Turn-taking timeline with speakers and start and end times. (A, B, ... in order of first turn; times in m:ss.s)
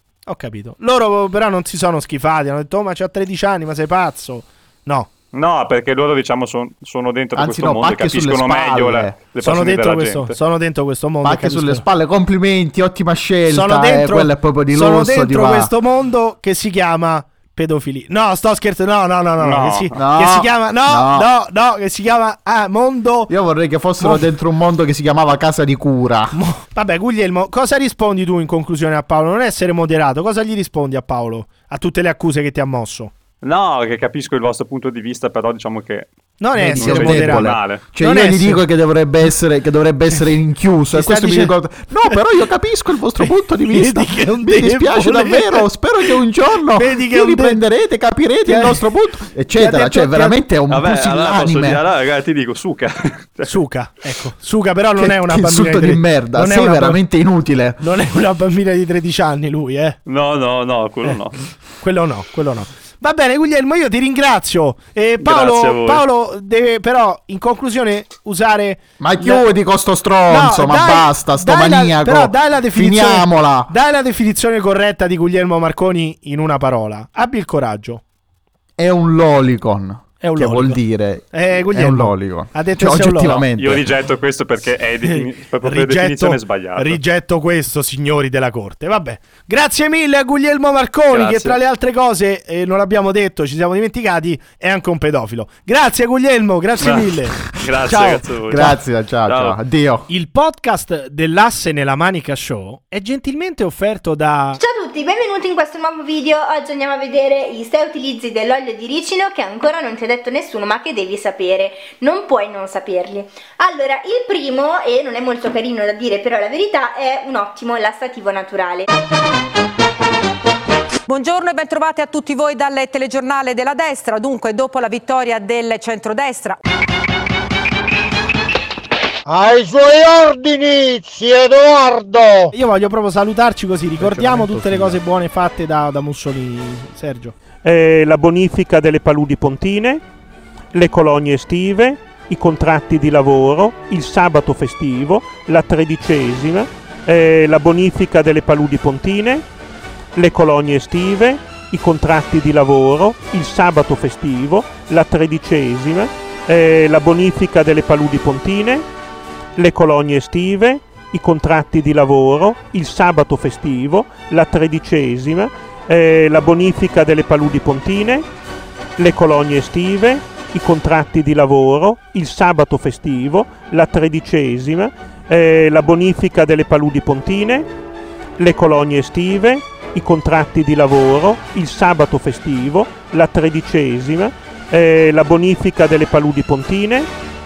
0:00.3-0:05.1 A
0:05.3-0:10.4 B
0:07.3-0:09.2 C
0:09.4-0:11.8 A
0:11.2-0:15.7 C
0:13.5-0:23.3 A
0:19.4-0:20.0 B
0:20.0-0:21.3 C
0:23.3-0:26.4 C
0:24.0-0:24.3 A
0:26.3-0:33.1 A
0:33.4-0:36.1 B
0:36.4-0:38.6 A
0:36.6-0:51.8 C
0:36.7-0:37.8 B
0:40.9-0:41.5 A
0:43.6-0:46.1 A
0:46.8-0:47.6 A
0:48.4-0:48.9 A
0:49.6-0:50.4 A
0:50.7-0:53.6 B
0:53.4-0:57.0 A
0:55.0-0:57.8 C
0:57.8-1:00.0 A
1:00.1-1:01.4 B
1:01.8-1:09.4 A
1:05.2-1:06.0 B
1:09.0-1:13.7 C
1:10.3-1:18.0 A
1:18.8-1:23.9 C
1:20.2-1:20.8 A
1:21.3-1:23.4 A
1:23.4-1:27.0 B
1:25.0-1:38.7 A
1:31.1-1:31.6 B
1:36.8-1:38.7 B
1:38.5-1:40.1 C
1:39.3-1:39.6 B
1:40.1-1:44.6 A
1:44.6-1:58.9 D
2:01.1-2:06.6 E
2:09.2-2:12.5 F
2:12.5-2:17.3 A
2:14.0-2:15.0 C
2:17.6-2:20.0 G
2:20.7-2:29.4 G
2:30.1-2:38.8 G
2:39.6-2:48.2 G
2:49.0-2:57.7 G
2:58.4-3:07.1 G